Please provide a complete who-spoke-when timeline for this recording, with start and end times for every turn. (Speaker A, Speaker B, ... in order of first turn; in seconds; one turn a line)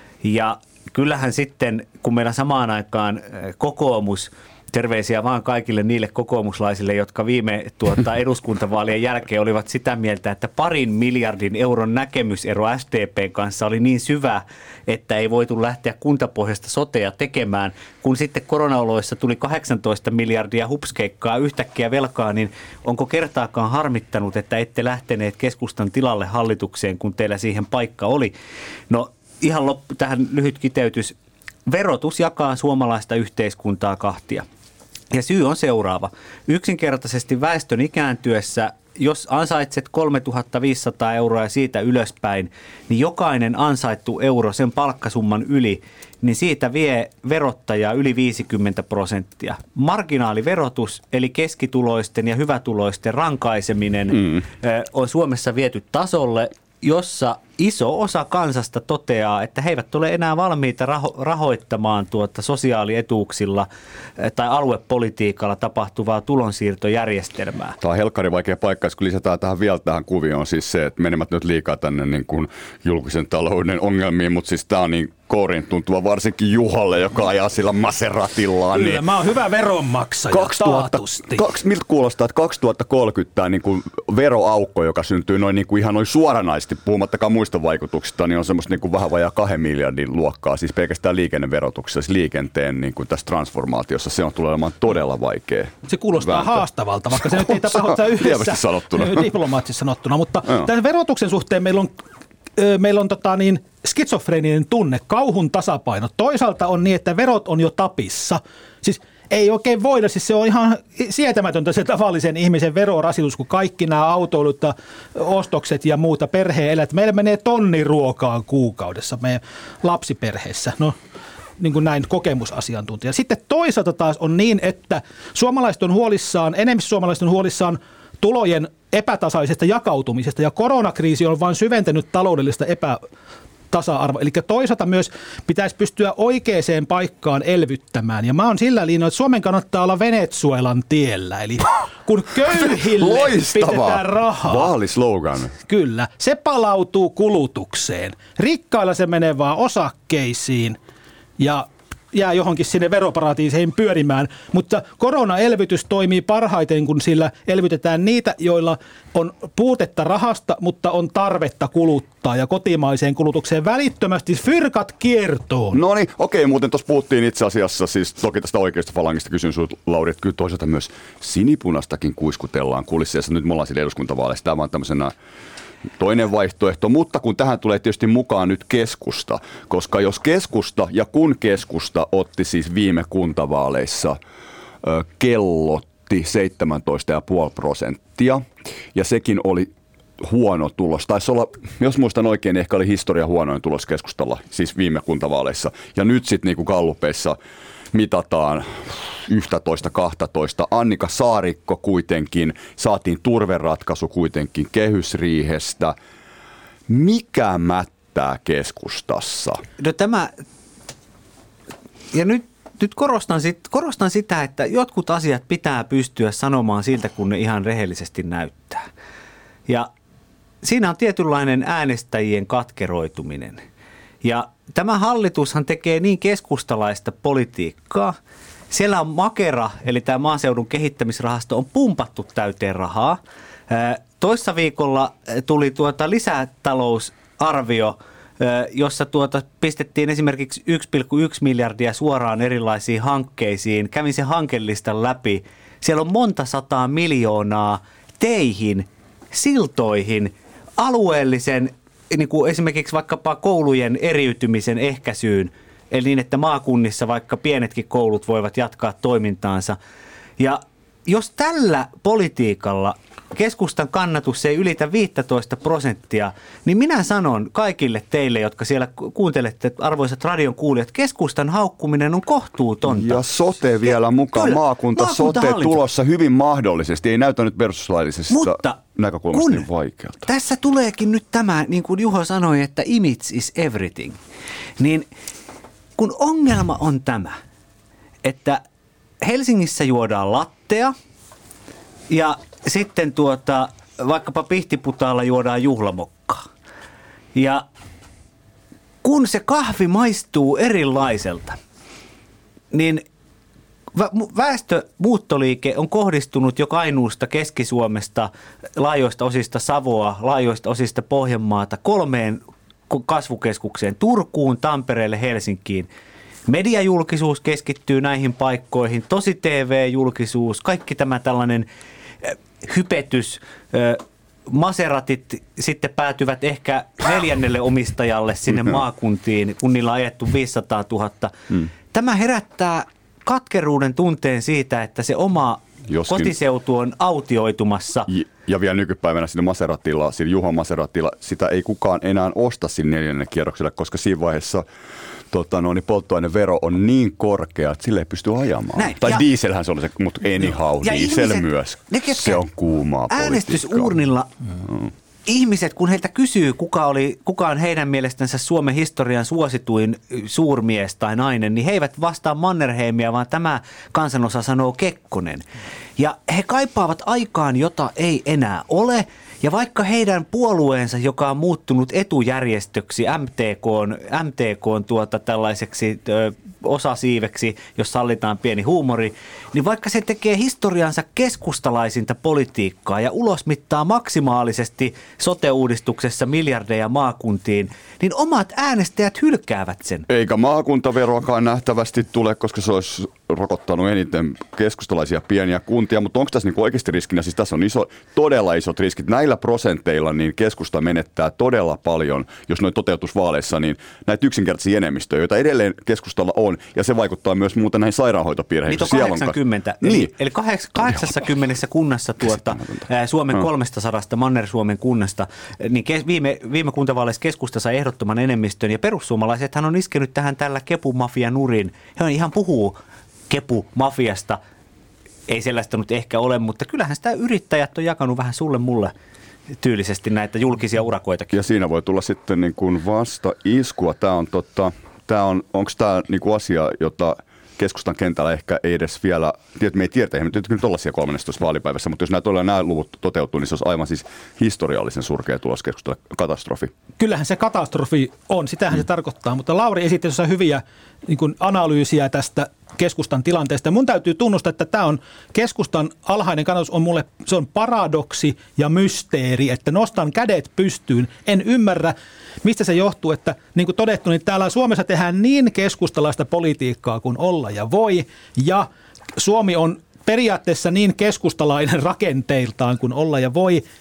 Speaker A: 0.2-28.3
Speaker A: 28.9-31.1
Speaker A: 31.7-34.5
Speaker A: 35.1-67.8
Speaker B: 67.8-79.1
Speaker C: 78.7-81.5
Speaker B: 80.3-96.7
Speaker C: 95.9-101.9
Speaker B: 97.2-99.3
Speaker C: 102.6-120.9
Speaker C: 121.6-133.0
Speaker C: 133.7-144.7
Speaker B: 142.5-145.6
Speaker C: 145.7-150.8
Speaker C: 151.4-165.8
Speaker B: 165.7-175.1
Speaker B: 176.0-184.2
Speaker B: 184.8-197.4
Speaker B: 197.9-206.0
Speaker B: 206.9-209.6
Speaker A: 209.8-210.3
Speaker A: 212.1-218.9
Speaker A: 220.6-223.6
Speaker A: 224.2-228.2
Speaker A: 228.7-259.8
Speaker A: 260.4-273.2
Speaker B: 272.9-280.3
Speaker A: 273.9-275.8
Speaker A: 278.3-278.8
Speaker A: 279.3-279.7
Speaker A: 280.3-284.2
Speaker A: 284.8-285.1
Speaker A: 286.0-287.4
Speaker A: 288.2-288.6
Speaker A: 289.2-290.9
Speaker A: 292.1-296.5
Speaker A: 297.4-297.6
Speaker A: 299.0-301.6
Speaker A: 302.7-303.0
Speaker A: 303.9-315.9
Speaker A: 316.5-321.7
Speaker A: 322.2-331.3
Speaker A: 331.9-338.1
Speaker B: 335.9-336.3
Speaker B: 338.1-344.6
Speaker B: 345.3-353.9
Speaker A: 348.8-349.2
Speaker A: 350.8-352.4
Speaker A: 353.1-354.3
Speaker A: 355.3-365.5
Speaker A: 366.0-390.1
Speaker B: 390.1-410.1
Speaker A: 408.7-422.8
Speaker A: 423.3-424.4
Speaker A: 425.3-428.9
Speaker A: 429.6-431.4
Speaker B: 431.3-446.7
Speaker C: 447.0-473.6